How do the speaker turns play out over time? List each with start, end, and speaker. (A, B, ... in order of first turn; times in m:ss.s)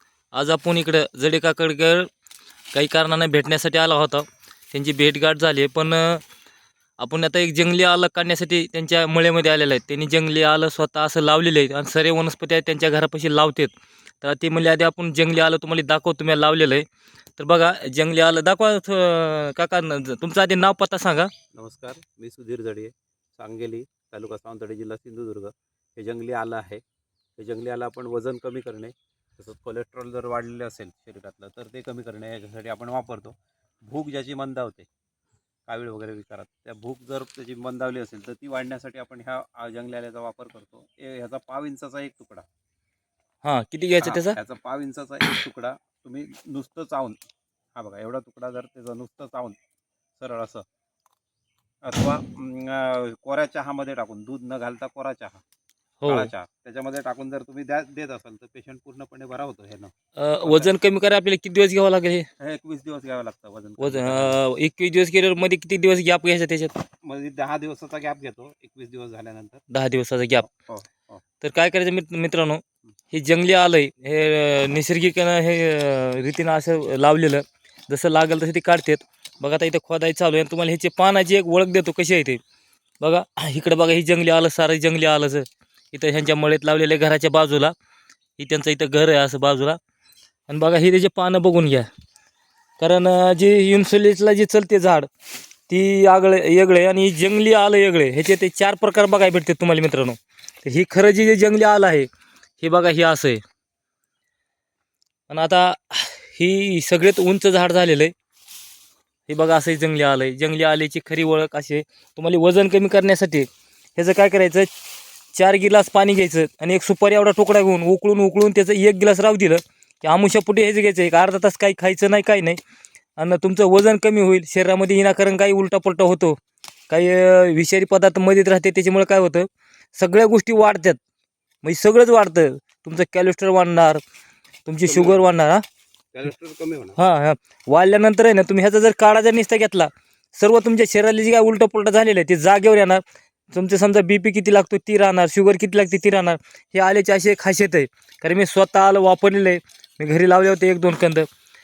0:00.3-0:02.1 A
0:02.7-0:06.2 A
0:07.0-0:16.8 A
0:17.4-0:21.3 A
0:21.5-0:26.8 B
0:27.4-0:34.9 B
0:35.7-0:42.4 B
0:43.4-0:44.4 A
0:44.0-0:47.2 B
0:47.8-0:49.6 B
0:50.2-0:50.6 B
0:51.8-0:55.4 B
0:56.0-0:56.3 A
0:56.0-1:00.7 B
1:00.2-1:02.3 A
1:02.4-1:04.4 B
1:03.8-1:06.7 A
1:07.0-1:09.6 B
1:09.7-1:10.5 A
1:10.5-1:11.2 B
1:11.4-1:22.4 A
1:23.0-1:27.7 A
1:28.4-1:29.8 A
1:30.5-1:31.9 A
1:32.8-1:35.1 A
1:35.7-1:42.1 A
1:42.6-1:43.4 A
1:45.3-1:48.1 A
1:49.3-1:54.7 A
1:55.3-2:02.6 A
2:03.2-2:11.0 A
2:11.6-2:14.0 A
2:14.7-2:15.6 A
2:14.8-2:15.2 B
2:16.1-2:17.0 B
2:17.0-2:31.3 A